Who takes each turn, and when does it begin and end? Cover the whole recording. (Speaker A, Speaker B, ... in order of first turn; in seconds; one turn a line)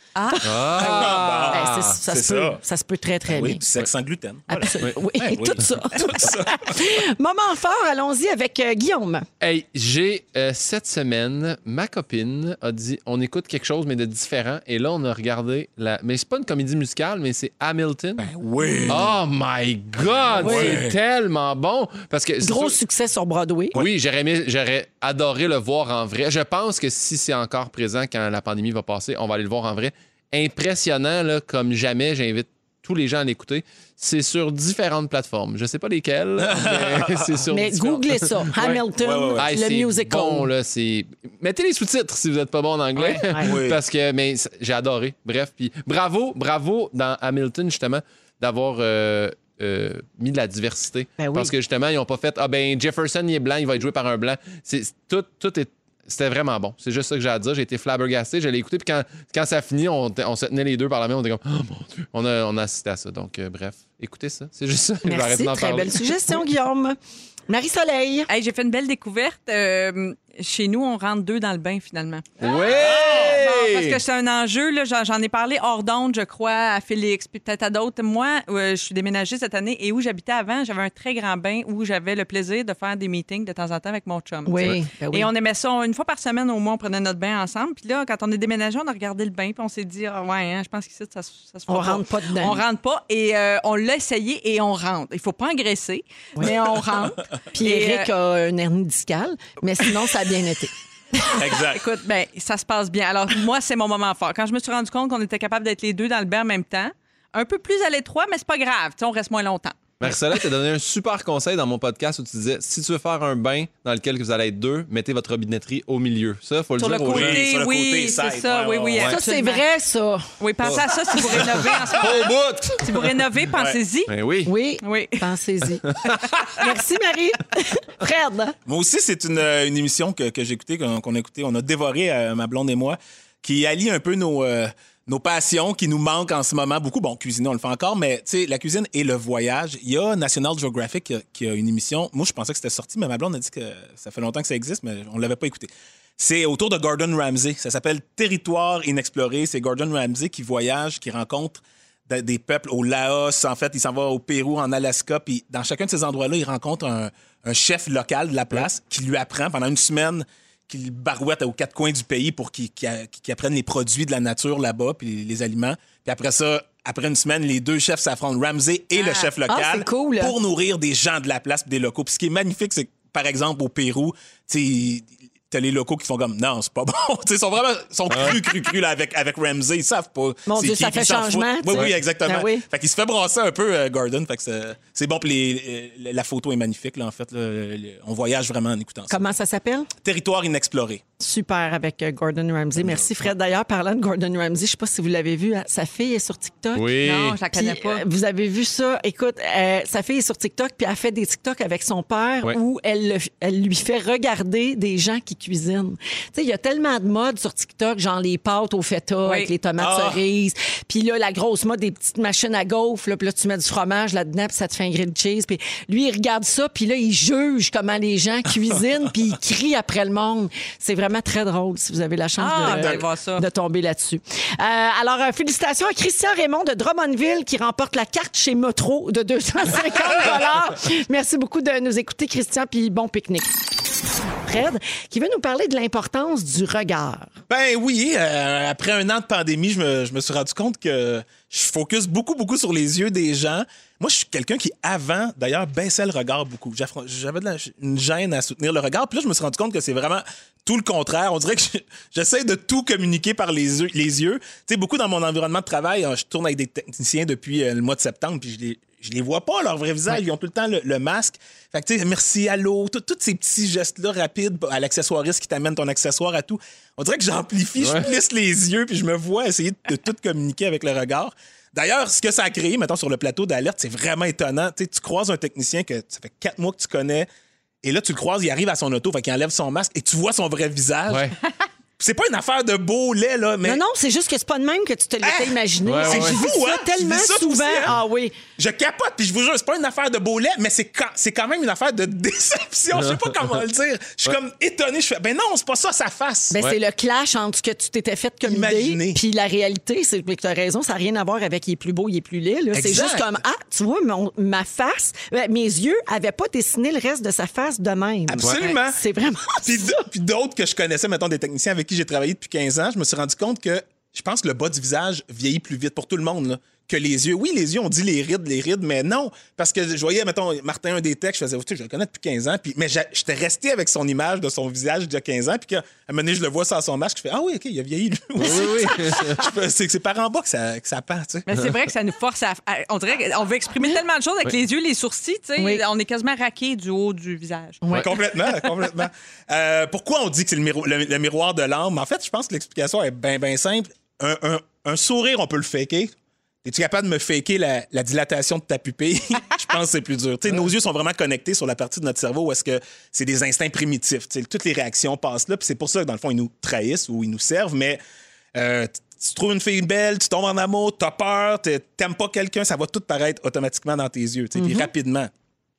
Speaker A: 0.2-1.1
Speaker B: 0.3-3.6
Speaker C: 0.4-2.0
Speaker D: 0.8-2.6
Speaker D: 3.3-6.9
Speaker B: 4.5-9.3
Speaker C: 9.4-18.3
Speaker D: 18.2-19.1
Speaker C: 18.9-22.8
Speaker D: 20.3-21.0
Speaker B: 20.4-20.8
Speaker B: 22.4-23.8
Speaker C: 23.7-38.8
Speaker D: 36.4-37.4
Speaker B: 37.5-40.5
Speaker D: 38.9-39.5
Speaker C: 39.4-66.3
Speaker A: 43.0-43.2
Speaker B: 43.2-43.6
Speaker D: 43.4-43.8
Speaker B: 51.2-51.5
Speaker B: 65.0-67.0
Speaker B: 67.5-68.3
Speaker A: 68.3-72.4
Speaker C: 72.4-74.0
Speaker D: 72.7-73.4
Speaker A: 73.1-98.1
Speaker B: 84.5-85.3
Speaker B: 91.7-92.6
Speaker B: 96.4-100.7
Speaker D: 101.3-101.9
Speaker A: 101.7-109.9
Speaker C: 110.0-117.5
Speaker A: 116.8-119.6
Speaker D: 116.9-119.2
Speaker B: 119.0-120.3
Speaker A: 120.4-124.1
Speaker C: 120.6-122.9
Speaker D: 123.5-123.8
Speaker C: 124.1-124.5
Speaker B: 124.5-125.9
Speaker A: 124.8-125.2
Speaker C: 125.9-126.4
Speaker B: 126.5-128.6
Speaker D: 128.7-189.3
Speaker A: 169.0-169.3
Speaker B: 169.4-170.3
Speaker C: 178.1-178.4
Speaker B: 180.5-182.7
Speaker B: 189.1-189.9
Speaker D: 190.0-191.0
Speaker B: 191.2-197.0
Speaker D: 192.8-193.1
Speaker C: 196.8-197.4
Speaker A: 197.0-198.0
Speaker B: 197.5-233.5
Speaker A: 209.2-209.5
Speaker D: 209.8-210.2
Speaker A: 222.4-223.4
Speaker D: 222.6-223.1
Speaker B: 234.4-237.4
Speaker D: 237.5-277.3
Speaker C: 267.8-268.1
Speaker D: 277.8-281.4
Speaker C: 281.1-281.4
Speaker D: 282.0-283.8
Speaker B: 283.6-288.4
Speaker D: 285.2-288.0
Speaker C: 285.9-286.4
Speaker D: 288.6-296.6
Speaker B: 296.5-310.1
Speaker D: 298.4-299.2
Speaker D: 302.7-303.4
Speaker D: 308.3-309.0
Speaker D: 309.6-331.5
Speaker C: 328.4-329.5
Speaker A: 331.5-337.8
Speaker B: 335.6-335.8
Speaker B: 337.8-338.3
Speaker D: 337.9-358.0
Speaker D: 358.6-365.3
Speaker B: 364.6-364.9